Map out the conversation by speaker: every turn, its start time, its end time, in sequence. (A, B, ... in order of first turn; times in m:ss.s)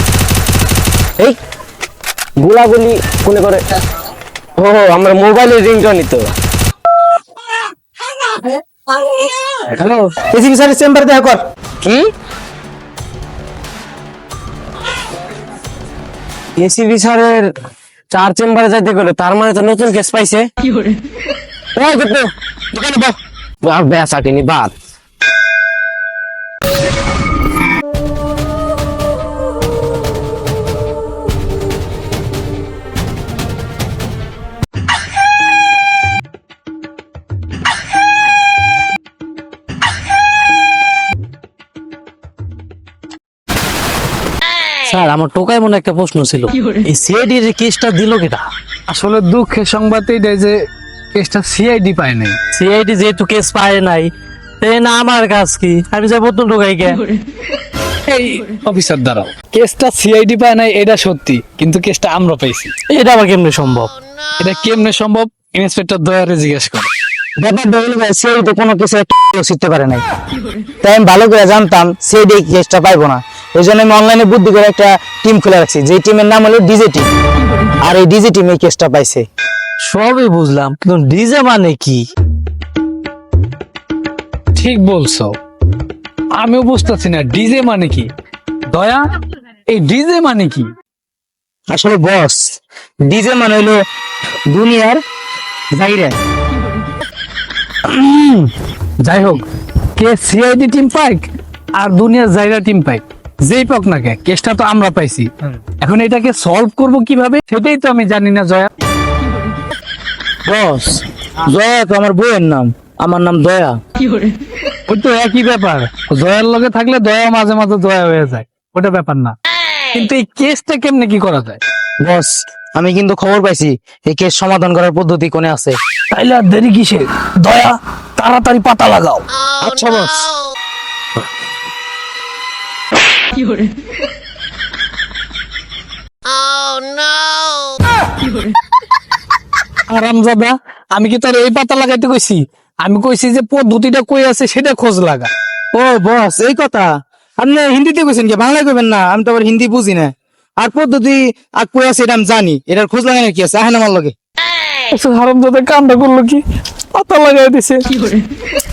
0:02.4-0:03.6 A
0:04.6-0:06.2 A
0:09.4-0:10.0 A
0:10.2-0:11.4 B
0:11.8-0:12.1 A
0:16.6-0:17.5 A
0:18.1-0:20.5 A
0:21.8-0:24.7 A
0:44.8-0:48.5 C
0:48.9-0:50.5 D
0:51.1-0:52.4 D
0:52.5-0:54.1 C
0:54.6-0:57.0 C
0:58.1-1:02.7 D
1:02.9-1:03.9 C
1:04.4-1:06.9 D
1:07.4-1:10.0 B
1:10.8-1:17.1 B
1:17.8-1:19.2 B
1:19.9-1:22.0 C
1:24.5-1:25.3 D
1:26.4-1:28.1 D
1:28.7-1:29.0 D
1:29.7-1:30.7 D
1:31.7-1:33.8 B
1:34.5-1:35.0 B
1:35.7-1:36.2 B
1:37.8-1:38.5 D
1:39.0-1:39.4 D
1:40.0-1:41.2 D
1:41.8-1:45.3 D
1:45.8-1:48.7 D
1:50.4-1:53.7 B
1:54.9-1:59.3 D
1:59.9-2:01.6 D
2:02.0-2:05.8 B
2:06.1-2:09.2 D
2:09.6-2:10.3 B
2:19.9-2:25.3 D
2:25.7-2:26.9 B
2:27.4-2:34.1 B
2:34.9-2:36.4 D
2:36.9-2:37.9 D